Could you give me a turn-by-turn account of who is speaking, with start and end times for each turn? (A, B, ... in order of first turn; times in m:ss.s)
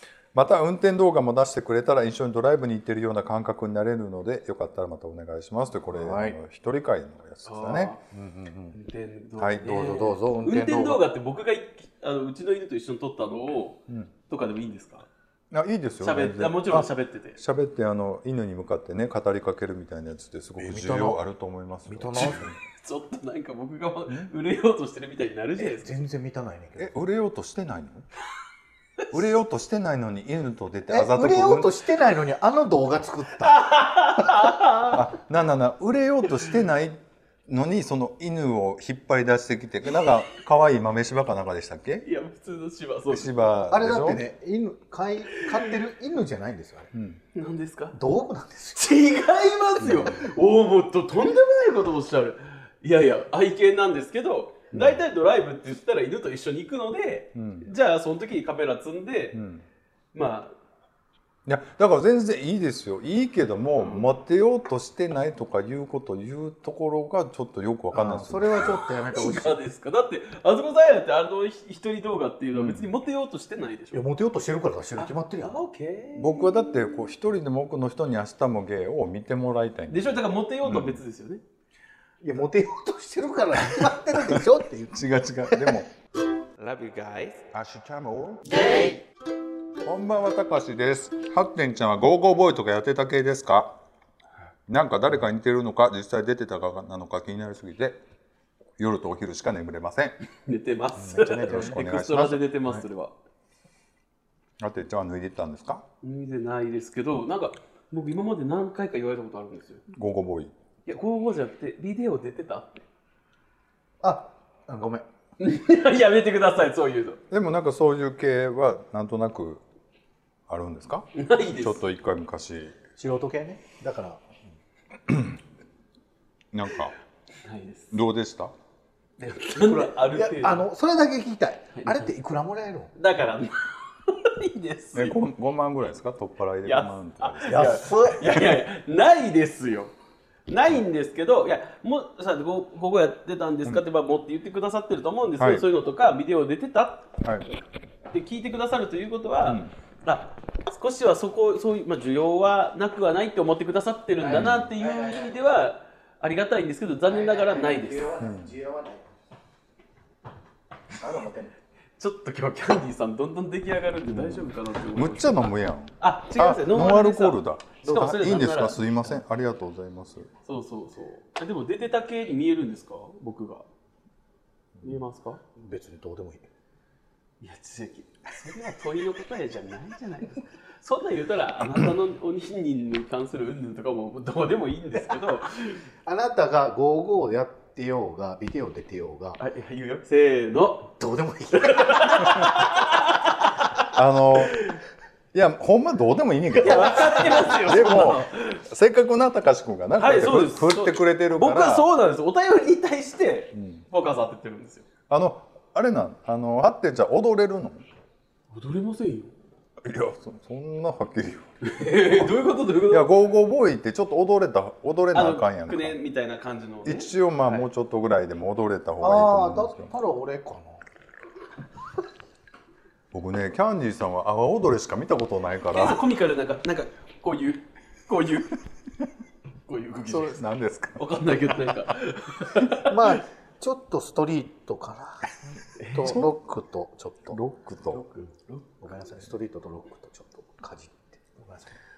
0:00.3-0:08.8 A
0:05.9-0:06.4 B
0:07.4-0:08.0 C
0:08.7-0:15.1 C
0:09.4-0:09.8 A
0:09.6-0:11.0 B
0:15.5-0:22.6 A
0:16.0-0:17.4 C
0:20.6-0:21.2 B
0:21.9-0:22.5 B
0:22.2-0:26.0 C
0:25.6-0:27.0 B
0:26.8-0:28.0 A
0:29.1-0:31.7 A
0:30.9-0:33.7 B
0:33.4-0:35.0 C
0:34.9-0:42.0 A
0:42.0-0:43.5 C
0:43.1-0:44.2 A
0:43.7-0:46.9 B
0:45.4-0:45.7 C
0:46.9-0:47.2 A
0:47.3-0:48.0 C
0:47.9-0:49.1 B
0:48.7-0:59.4 C
0:49.8-0:50.2 A
0:54.7-0:55.0 A
0:57.3-0:57.7 A
0:59.3-0:59.6 A
1:00.1-1:00.5 C
1:01.4-1:08.8 A
1:03.8-1:04.0 C
1:07.9-1:09.6 B
1:08.7-1:14.0 C
1:12.5-1:12.9 A
1:13.9-1:15.6 B
1:15.0-1:16.8 C
1:16.2-1:20.1 A
1:19.9-1:21.4 C
1:20.6-1:21.0 A
1:22.2-1:25.8 B
1:23.8-1:25.9 A
1:26.6-1:27.4 C
1:27.5-1:28.6 A
1:29.8-1:33.7 A
1:34.7-1:38.0 A
1:38.8-1:40.2 A
1:40.4-1:43.1 C
1:41.0-1:41.7 B
1:41.2-1:42.8 A
1:44.6-1:45.8 A
1:46.0-1:49.8 C
1:49.9-1:50.5 A
1:50.8-1:52.8 C
1:54.0-1:55.0 B
1:55.4-1:57.2 C
1:57.3-1:59.6 A
2:00.5-2:02.8 A
2:01.1-2:01.8 C
2:03.0-2:04.2 B
2:05.1-2:05.4 A
2:06.5-2:06.9 A
2:07.4-2:08.0 C
2:07.9-2:08.5 A
2:09.2-2:10.7 C
2:09.5-2:12.9 B
2:11.7-2:12.1 C
2:13.0-2:15.2 C
2:14.9-2:17.7 A
2:16.6-2:19.9 C
2:17.5-2:18.5 B
2:20.5-2:27.1 C
2:25.4-2:25.6 A
2:28.1-2:38.1 C
2:29.4-2:29.7 A
2:34.2-2:35.3 B
2:34.3-2:34.7 A
2:37.1-2:39.1 B
2:38.2-2:38.6 A
2:41.0-2:41.5 B
2:42.0-2:49.2 C
2:44.1-2:50.3 A
2:50.4-2:53.6 C
2:54.8-2:55.4 C
2:55.6-2:56.4 B
2:57.4-3:05.8 C
3:06.0-3:09.4 B
3:09.4-3:10.9 C
3:11.0-3:12.7 B
3:11.5-3:13.8 C
3:13.9-3:14.6 A
3:15.3-3:21.9 A
3:16.6-3:18.6 C
3:19.9-3:24.8 C
3:23.5-3:23.8 A
3:25.1-3:27.8 A
3:28.5-3:29.3 C
3:29.8-3:31.5 A
3:31.6-3:33.1 C
3:32.1-3:32.3 A
3:32.9-3:36.0 A
3:35.1-3:37.6 C
3:36.8-3:39.9 A
3:39.0-3:40.8 B
3:43.1-3:46.0 A
3:45.7-3:48.6 C
3:49.6-3:50.4 C
3:50.0-3:51.3 A
3:51.0-3:53.2 C
3:52.9-3:57.4 B
3:55.8-3:56.2 C
3:57.3-3:58.0 A
3:57.9-3:58.6 C
3:58.8-4:01.7 B